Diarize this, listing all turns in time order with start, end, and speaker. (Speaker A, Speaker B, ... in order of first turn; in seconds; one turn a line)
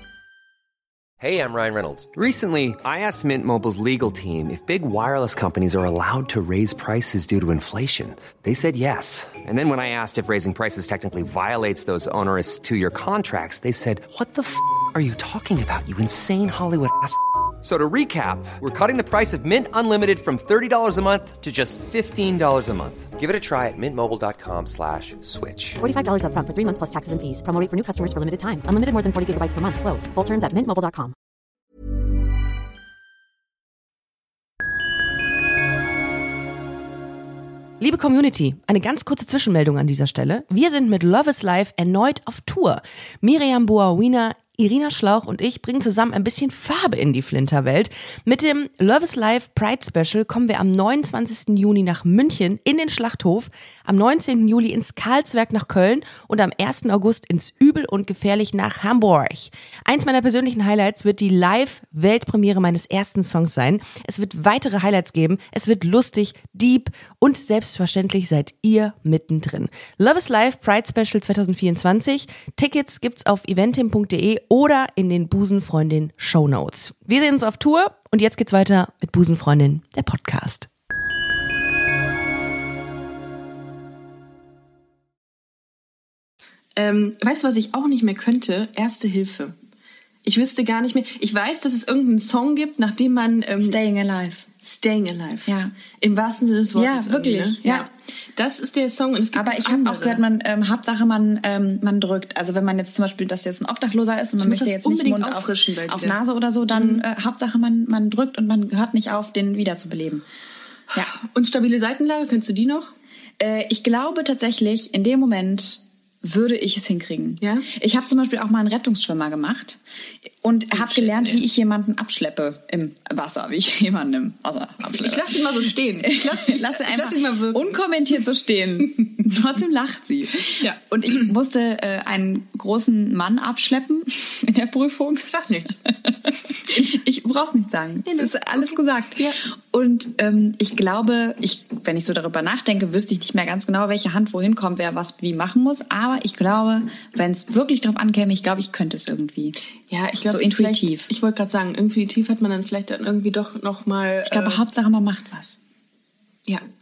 Speaker A: 1.2-25.8
Speaker B: 25.8-31.1
Speaker C: 37.8-80.7
Speaker D: 86.8-89.5
Speaker D: 90.2-93.8
Speaker E: 93.6-94.5
Speaker D: 94.6-100.2
Speaker E: 95.5-95.7
Speaker E: 96.8-97.9
Speaker E: 99.3-110.2
Speaker D: 104.4-106.2
Speaker D: 106.7-107.0
Speaker D: 111.0-112.9
Speaker E: 113.4-119.8
Speaker D: 117.4-117.7
Speaker E: 120.4-125.5
Speaker D: 120.8-121.4
Speaker D: 124.8-127.8
Speaker E: 126.0-149.6
Speaker D: 135.3-135.8
Speaker D: 138.1-139.4
Speaker D: 149.9-154.6
Speaker E: 150.3-151.1
Speaker E: 154.2-155.6